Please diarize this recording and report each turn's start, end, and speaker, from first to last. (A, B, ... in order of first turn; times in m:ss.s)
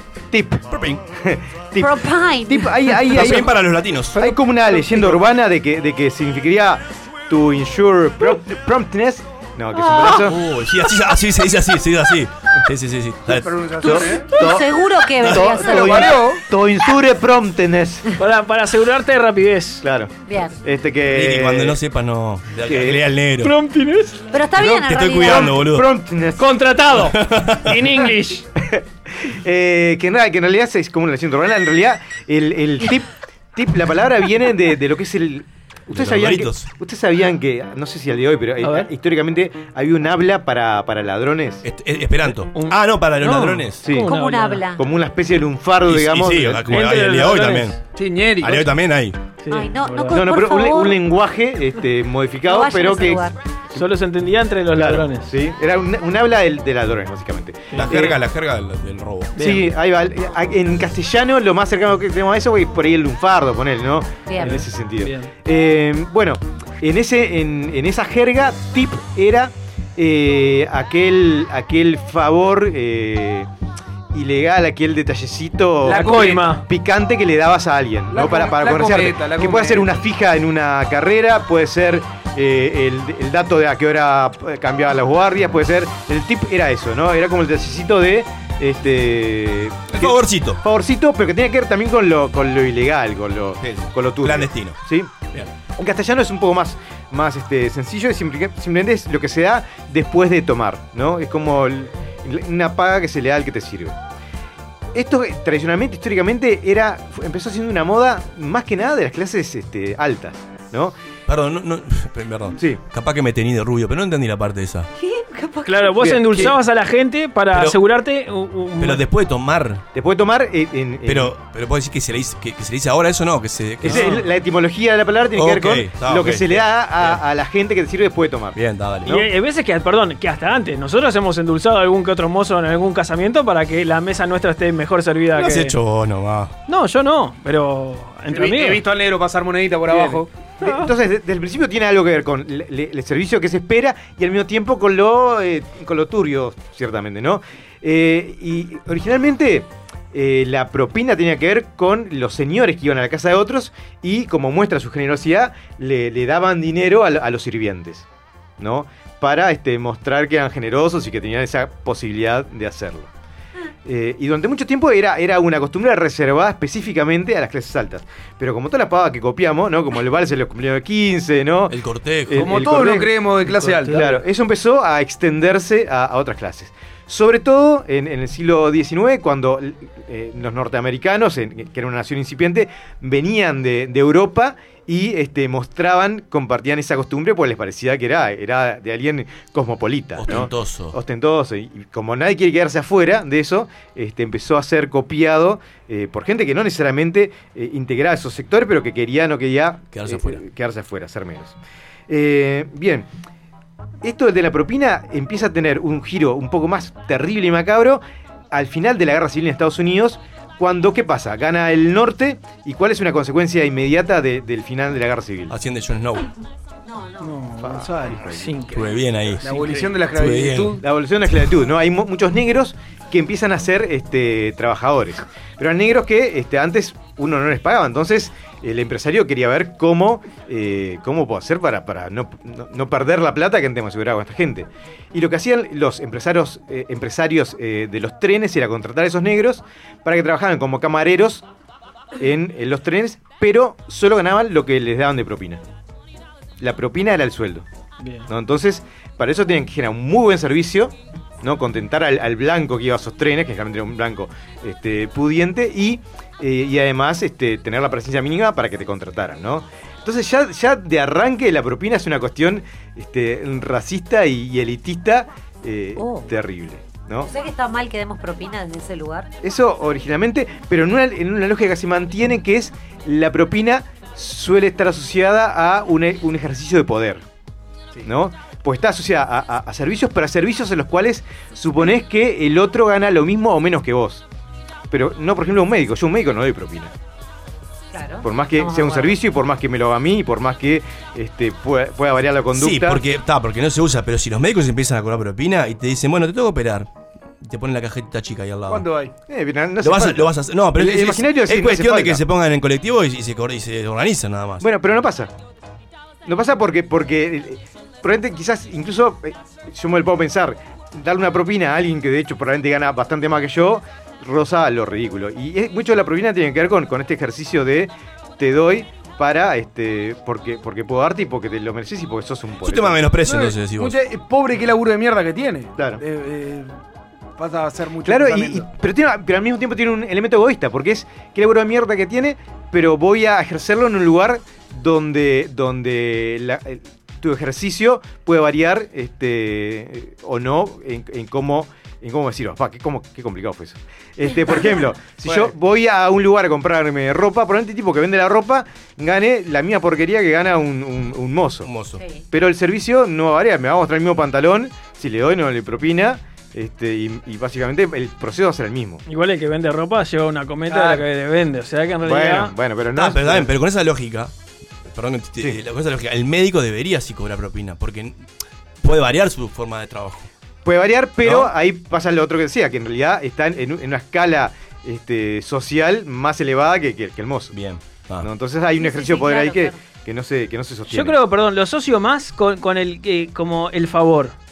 0:00.3-0:03.6 A
0:00.7-0:01.0 B
0:01.8-0:02.7 C
0:03.1-0:04.3 B
0:04.2-0:10.4 A
0:09.8-0:10.1 C
0:10.0-0:13.6 B
0:13.3-0:14.3 D
0:13.8-0:16.2 C
0:13.8-0:14.7 A
0:15.2-0:18.1 A
0:15.3-0:16.4 D
0:18.2-0:19.8 E
0:19.8-0:21.8 A
0:20.3-0:20.6 C
0:21.1-0:23.5 B
0:22.6-0:23.0 A
0:23.4-0:24.2 E
0:24.3-0:25.5 C
0:24.6-0:25.9 B
0:25.2-0:26.5 A
0:26.4-0:28.5 E
0:27.1-0:27.8 B
0:28.6-0:41.6 A
0:35.9-0:36.7 B
0:38.6-0:38.9 E
0:41.6-0:43.8 B
0:42.5-0:44.7 E
0:43.8-0:44.1 A
0:44.0-0:44.8 C
0:44.8-0:46.8 A
0:45.9-0:47.8 B
0:46.7-0:47.8 E
0:47.9-0:48.7 D
0:48.4-0:49.2 B
0:49.4-0:50.2 E
0:49.5-0:51.0 C
0:50.1-0:53.8 A
0:52.5-0:53.3 C
0:53.8-0:55.3 E
0:54.8-0:58.2 A
0:57.7-0:58.1 E
0:57.7-0:59.4 B
0:59.4-0:59.7 E
0:59.4-1:13.5 A
1:04.3-1:04.6 C
1:04.4-1:05.3 E
1:14.1-1:35.2 A
1:15.8-1:16.4 D
1:15.9-1:16.6 E
1:18.1-1:20.0 D
1:29.9-1:30.6 B
1:33.6-1:34.8 B
1:35.8-1:44.0 A
1:44.9-1:51.0 A
1:51.3-1:54.9 B
1:55.0-1:55.9 C
1:55.6-1:59.0 E
1:56.0-1:56.6 A
1:57.5-1:57.8 B
1:58.8-1:59.8 B
1:59.9-2:01.4 A
2:01.0-2:04.3 B
2:03.8-2:09.2 A
2:05.4-2:07.2 B
2:08.6-2:09.2 B
2:09.0-2:15.8 E
2:15.4-2:16.5 B
2:16.7-2:18.8 E
2:18.3-2:20.3 D
2:20.6-2:20.9 E
2:20.6-2:38.1 A
2:38.6-2:43.1 A
2:43.8-2:51.8 A
2:51.7-2:52.5 B
2:52.3-3:21.6 A
2:52.3-2:54.1 D
3:10.2-3:11.0 B
3:19.9-3:20.4 B
3:22.1-3:23.1 A
3:24.0-3:35.5 A
3:35.5-3:36.3 B
3:36.9-3:37.3 C
3:37.2-3:38.8 E
3:37.6-3:38.5 A
3:37.7-3:38.2 D
3:38.7-3:40.8 B
3:39.4-3:40.8 D
3:39.5-3:39.8 E
3:40.8-4:01.4 A
4:02.2-4:05.6 A
4:06.6-4:07.7 A
4:08.0-4:08.3 E
4:08.3-4:27.3 A
4:26.0-4:26.3 C
4:27.2-4:29.3 C
4:29.4-4:37.2 A
4:38.0-4:44.2 A
4:44.9-4:46.9 A
4:47.9-4:49.2 C
4:48.2-4:53.0 A
4:52.6-4:56.9 B
4:57.4-4:58.9 B
4:58.7-4:59.1 D
4:59.3-5:02.2 A
4:59.8-5:04.6 B
5:04.6-5:05.3 A
5:06.2-5:23.0 A
5:22.6-5:24.0 B
5:23.3-5:26.7 D
5:25.8-5:26.0 A
5:27.4-5:28.7 D
5:28.0-5:51.7 A
5:51.6-5:52.0 B
5:52.0-5:52.2 C
5:52.3-5:59.0 A
5:59.1-6:02.5 E
6:00.7-6:01.0 D
6:02.0-6:03.5 A
6:03.0-6:04.3 B
6:04.9-6:08.2 B
6:08.8-6:10.3 B
6:10.6-6:17.6 A
6:11.2-6:11.5 B
6:17.5-6:18.3 B
6:18.2-6:21.2 A
6:18.8-6:19.8 C
6:20.9-6:24.4 E